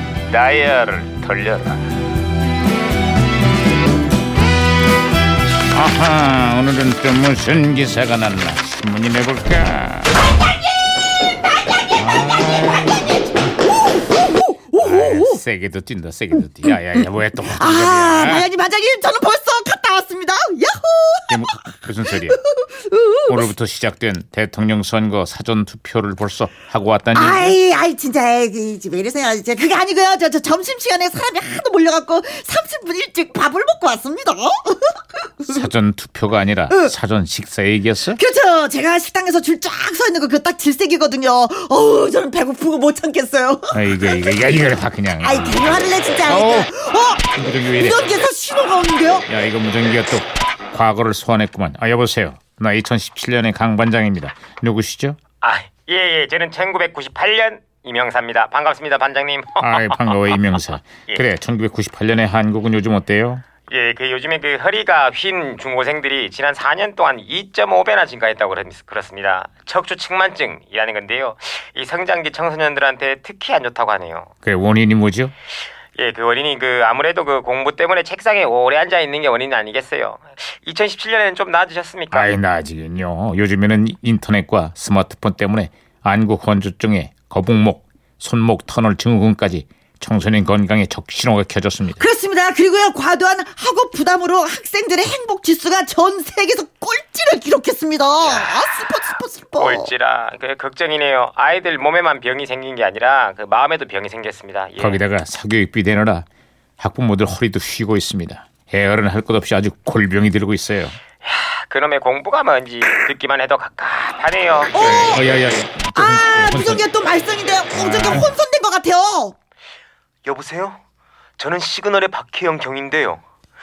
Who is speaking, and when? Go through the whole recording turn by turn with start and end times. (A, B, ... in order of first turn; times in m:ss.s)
0:00.3-0:01.8 A
0:05.7-0:10.1 A
0:11.9-0:13.1 A
0:12.1-0:15.4 B
0:14.8-0:18.5 A
0:16.4-0:23.5 B
0:21.3-0:22.4 A
0:23.3-0:27.6 A
0:27.1-0:35.6 B
0:35.5-0:38.2 A
0:38.1-0:44.4 B
0:43.7-0:46.7 A
0:45.2-0:49.3 B
0:47.3-0:48.0 A
0:49.3-0:55.2 A
0:55.4-1:01.2 C
0:59.6-1:03.4 A
1:03.6-1:14.3 C
1:14.4-1:15.3 A
1:16.0-1:22.3 C
1:22.1-1:32.0 A
1:32.0-1:39.9 B
1:38.2-1:38.6 C
1:39.6-1:45.0 C
1:44.8-1:46.2 A
1:46.8-1:51.0 A
1:51.2-1:54.9 C
1:54.7-1:55.3 B
1:54.8-1:56.8 A
1:55.9-1:59.3 B
1:57.7-1:58.3 A
2:00.2-2:00.8 C
2:01.4-2:03.2 C